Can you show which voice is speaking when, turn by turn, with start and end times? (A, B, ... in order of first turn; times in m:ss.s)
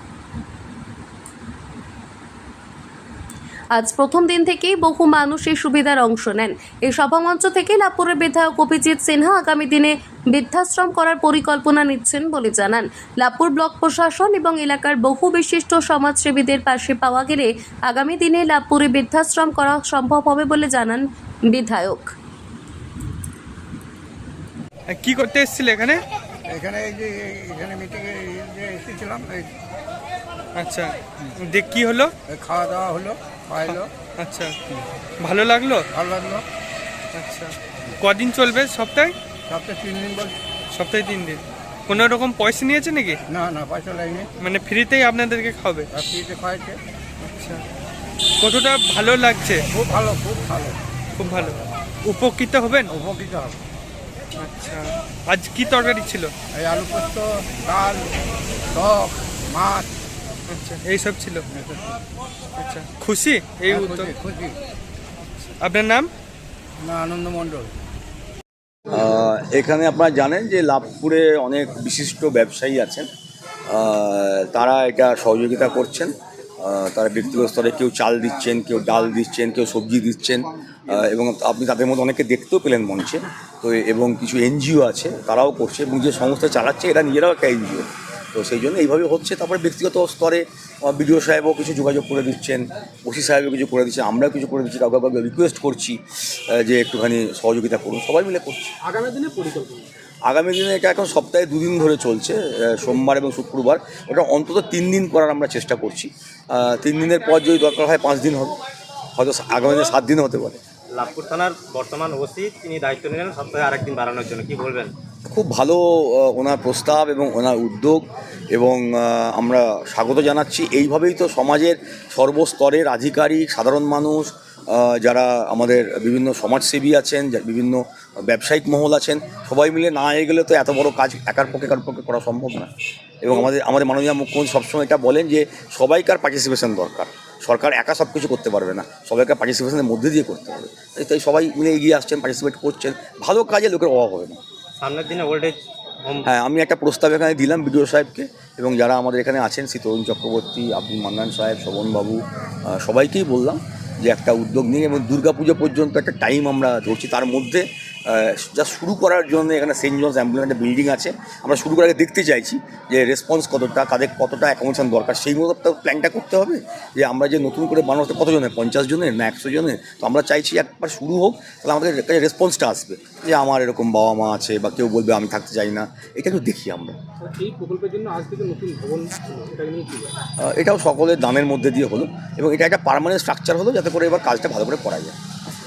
0:03.7-0:22.1 A
0:24.9-0:26.0 B
0:26.5-0:29.5 C
0:30.5-0:32.1 B
0:32.3-0:33.9 C
0:33.6-0:34.6 B
0:35.2-0:35.8 B
0:35.9-0:36.4 C
0:37.1-0:39.1 B
0:39.5-0:40.3 C
0:40.7-0:43.2 B
0:43.3-0:44.3 C
0:44.4-0:45.9 B
0:45.9-0:46.8 C
0:47.2-0:47.6 B
0:48.4-0:49.6 B
0:49.7-0:50.8 C
0:51.2-0:52.9 B
0:52.9-0:53.6 C
0:54.4-0:56.3 B
0:56.5-0:58.1 C
0:58.7-0:59.9 C
1:00.5-1:01.4 B
1:02.6-1:04.1 B
1:03.7-1:04.6 C
1:05.6-1:06.1 B
1:06.8-1:07.7 C
1:08.9-1:13.1 D
1:13.7-1:38.7 D
1:38.8-1:39.9 E
1:40.2-1:48.6 D
1:49.1-1:50.6 D
1:50.9-1:54.9 F
1:55.2-2:12.7 D
2:13.2-2:24.4 D
2:24.8-2:26.3 F
2:26.2-2:57.0 D
2:57.2-3:00.1 E
3:00.4-3:05.1 D